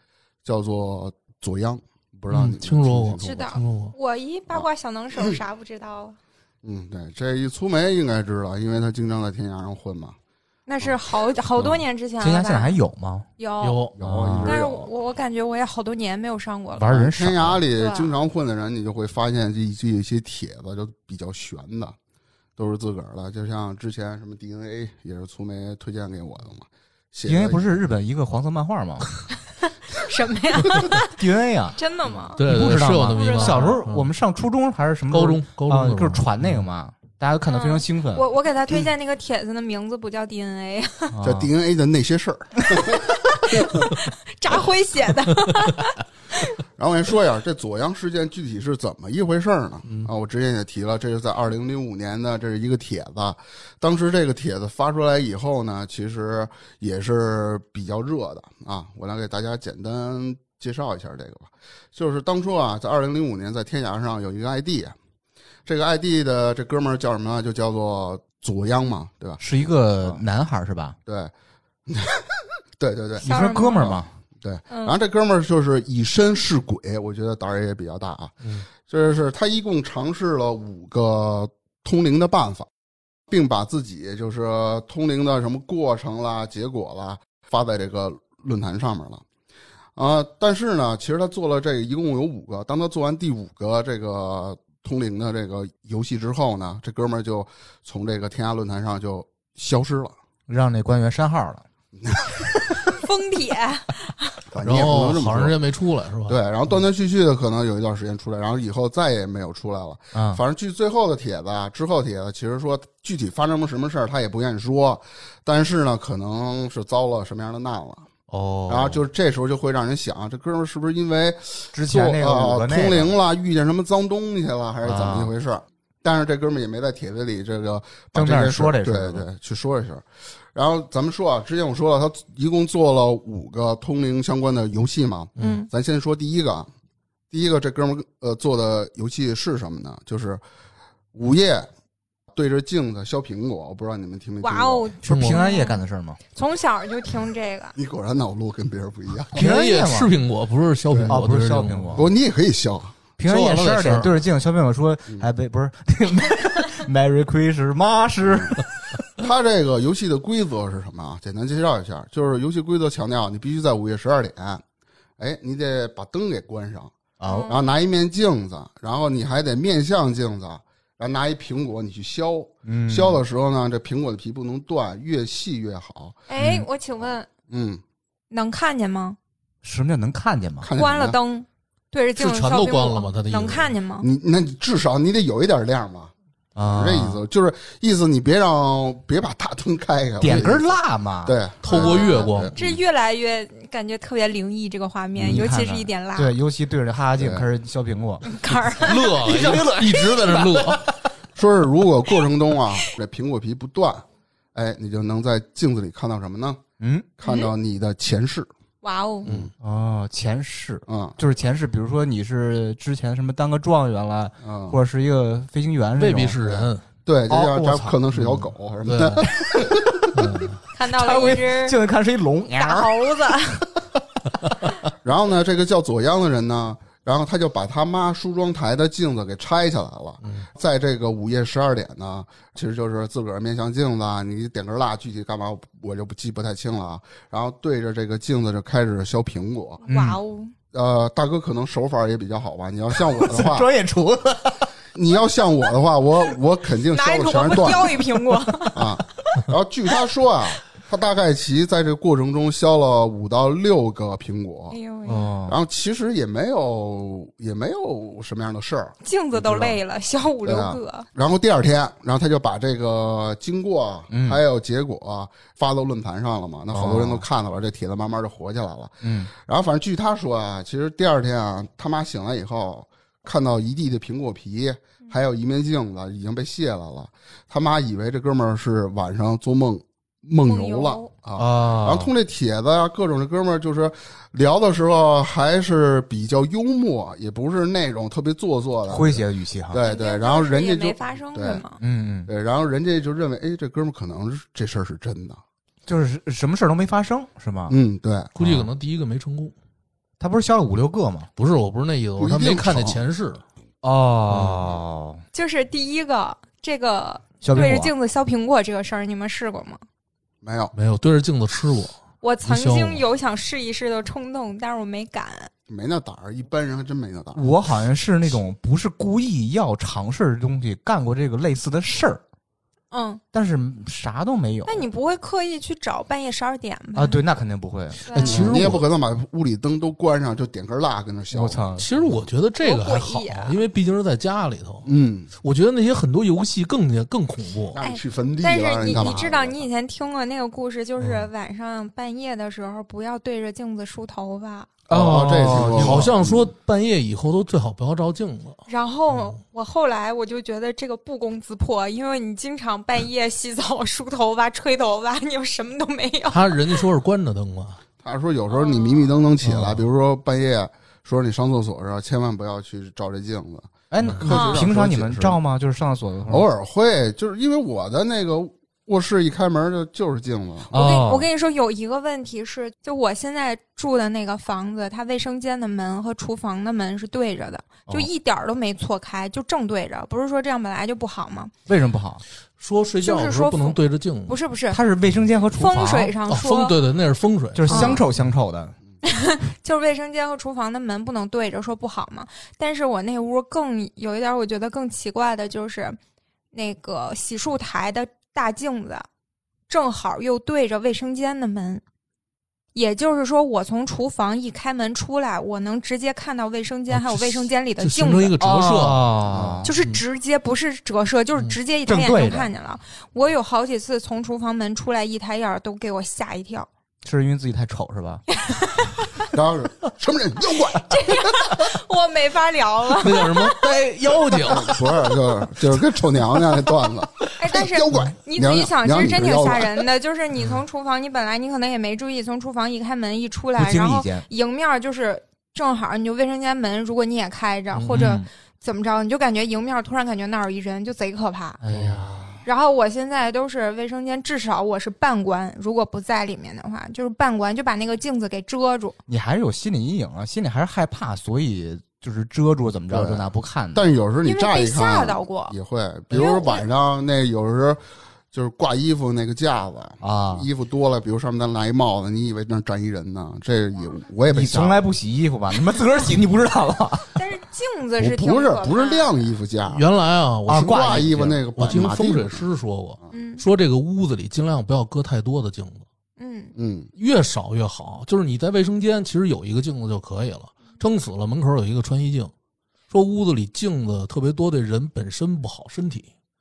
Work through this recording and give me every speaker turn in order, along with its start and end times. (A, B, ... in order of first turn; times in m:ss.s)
0:00.4-0:03.5 A
0:02.3-0:03.9 B
0:03.2-0:06.2 C
0:06.6-0:10.2 A
0:10.7-0:12.8 C
0:12.2-0:13.2 D
0:13.4-0:13.9 C
0:13.6-0:13.9 B
0:14.0-0:14.9 A
0:14.0-0:14.6 D
0:14.4-0:16.9 C
0:16.8-0:17.6 D
0:16.8-0:21.9 A
0:17.8-0:18.1 C
0:22.6-0:27.7 A
0:27.2-0:29.0 D
0:29.9-0:31.2 C
0:31.2-0:38.2 D
0:31.8-0:32.4 C
0:32.4-0:34.1 B
0:33.1-0:33.8 C
0:35.1-0:36.2 B
0:37.5-0:41.2 C
0:41.1-0:41.5 D
0:41.2-0:43.9 A
0:44.3-0:46.0 C
0:46.8-1:04.9 A
1:05.6-1:09.4 A
1:09.4-1:11.0 D
1:11.0-1:11.3 A
1:11.9-1:22.7 A
1:13.2-1:14.1 D
1:13.2-1:14.0 C
1:14.7-1:15.0 C
1:23.3-1:29.2 A
1:30.0-1:40.1 A
1:40.5-1:41.6 D
1:42.0-1:42.5 A
1:42.9-1:44.4 C
1:44.5-1:45.6 A
1:44.6-1:46.4 B
1:46.3-1:58.1 A
1:50.1-1:50.4 D
1:58.3-1:59.0 D
1:58.7-2:16.7 A
2:01.7-2:03.2 D
2:04.8-2:05.3 D
2:08.1-2:09.2 D
2:15.4-2:15.7 C
2:17.3-2:20.4 A
2:21.1-2:21.7 A
2:22.3-2:24.9 A
2:24.4-2:25.8 C
2:25.0-2:25.4 B
2:25.0-2:26.2 D
2:26.3-2:27.7 C
2:27.8-2:29.5 A
2:29.3-2:30.1 D
2:29.3-2:32.0 B
2:30.9-2:31.2 A
2:31.0-2:32.1 D
2:31.9-2:33.0 A
2:33.2-2:38.6 D
2:33.2-2:34.1 B
2:38.2-2:38.6 A
2:39.2-2:44.6 A
2:45.2-2:56.2 A
2:47.2-2:47.5 D
2:47.2-2:47.6 C
2:52.6-2:53.2 D
2:56.3-2:57.3 C
2:56.4-2:56.7 D
2:57.5-2:57.8 A
2:58.3-2:59.2 C
2:59.6-3:00.7 D
3:00.6-3:01.2 A
3:00.7-3:04.1 C
3:02.2-3:03.7 B
3:04.0-3:06.1 A
3:06.6-3:07.2 D
3:06.7-3:12.8 A
3:10.2-3:11.3 D
3:11.6-3:12.5 B
3:11.7-3:16.3 C
3:15.2-3:15.4 A
3:15.2-3:21.0 D
3:17.2-3:17.5 A
3:18.2-3:19.2 C
3:18.8-3:20.8 B
3:21.3-3:24.0 A
3:24.5-3:26.6 A
3:26.8-3:27.1 D
3:27.2-3:28.5 A
3:27.2-3:27.5 C
3:28.8-3:29.3 C
3:29.2-3:29.5 A
3:29.6-3:36.4 D
3:30.9-3:31.2 A
3:34.4-3:34.8 A
3:36.0-3:39.2 B
3:36.4-3:40.1 A
3:37.3-3:37.6 D
3:39.3-3:40.0 D
3:40.1-3:40.6 B
3:40.7-3:41.8 C
3:40.9-3:42.9 D
3:42.5-3:43.6 C
3:45.0-3:59.8 A
3:59.8-4:00.5 C
3:59.9-4:00.2 D
4:00.7-4:03.7 A
4:02.9-4:04.7 D
4:04.9-4:08.0 A
4:06.9-4:09.0 C
4:08.7-4:14.8 A
4:14.7-4:15.3 C
4:15.1-4:15.6 D
4:15.5-4:19.8 A
4:19.0-4:21.1 C
4:20.4-4:51.6 A
4:24.1-4:24.4 D
4:26.7-4:27.3 D
4:29.0-4:29.3 D
4:40.4-4:41.1 C
4:41.4-4:42.1 D
4:48.9-4:49.8 D
4:49.8-4:51.8 C
4:51.8-4:52.3 D
4:52.3-4:55.4 A
4:55.9-4:57.8 D
4:57.7-4:58.3 A
4:58.4-4:59.5 B
4:58.4-4:58.7 D
5:00.2-5:01.3 D
5:01.4-5:03.4 B
5:02.2-5:03.0 A
5:03.8-5:05.2 D
5:04.3-5:04.7 B
5:05.3-5:09.8 C
5:07.4-5:07.9 D
5:10.4-5:10.7 A
5:10.7-5:13.0 B
5:12.2-5:15.5 C
5:15.7-5:17.4 A
5:17.3-5:22.2 D
5:22.9-5:23.2 C
5:23.3-5:24.9 D
5:24.7-5:27.2 C
5:26.9-5:28.0 D
5:28.0-5:28.5 C
5:28.2-5:28.8 B
5:28.2-5:32.1 A
5:31.3-5:31.9 D
5:31.8-5:34.9 B
5:32.6-5:33.6 C
5:34.8-5:35.3 A
5:35.4-5:37.8 B
5:37.7-5:39.7 A
5:37.8-5:44.7 C
5:41.0-5:41.3 B
5:44.9-5:46.5 A
5:44.9-5:46.2 D
5:45.2-5:49.4 B
5:48.7-5:56.8 C
5:56.3-5:57.8 B
5:58.0-6:05.4 A
5:58.5-5:59.2 C
5:59.4-5:59.8 B
6:03.9-6:06.5 D
6:04.3-6:04.6 C
6:06.3-6:10.7 A
6:10.7-6:11.3 D
6:10.7-6:21.5 C
6:21.7-6:22.2 D
6:22.6-6:24.3 B
6:23.0-6:24.8 C
6:24.7-6:26.1 D
6:25.6-6:26.8 C
6:26.3-6:28.0 B
6:27.5-6:28.8 D
6:27.7-6:28.0 C
6:29.0-6:36.0 C
6:36.5-6:39.1 C
6:39.7-6:41.8 C
6:42.7-6:48.3 C
6:46.9-6:49.1 B
6:48.4-6:49.7 D
6:49.2-6:49.6 A
6:49.6-6:56.7 C
6:51.9-6:52.5 D
6:57.0-6:58.2 D
6:58.3-6:59.3 C
6:59.3-7:01.6 A
7:00.7-7:03.6 C
7:03.0-7:04.9 B
7:04.4-7:09.9 A
7:07.4-7:21.6 C
7:13.6-7:14.3 D
7:17.7-7:18.0 B
7:17.9-7:18.3 D
7:21.6-7:22.4 D
7:22.4-7:29.0 C
7:29.1-7:33.8 D
7:32.9-7:37.8 A
7:34.2-7:35.6 C
7:36.1-7:36.6 C
7:38.3-7:44.8 A
7:40.0-7:40.5 D
7:44.3-7:47.1 D
7:47.2-7:49.3 C
7:48.0-7:49.8 A
7:49.7-7:55.8 B
7:50.5-7:51.1 D
7:50.5-7:52.4 A
7:53.1-7:53.4 C
7:56.2-7:56.5 C
7:56.6-7:56.9 A
7:57.0-8:02.3 B
8:02.9-8:06.1 B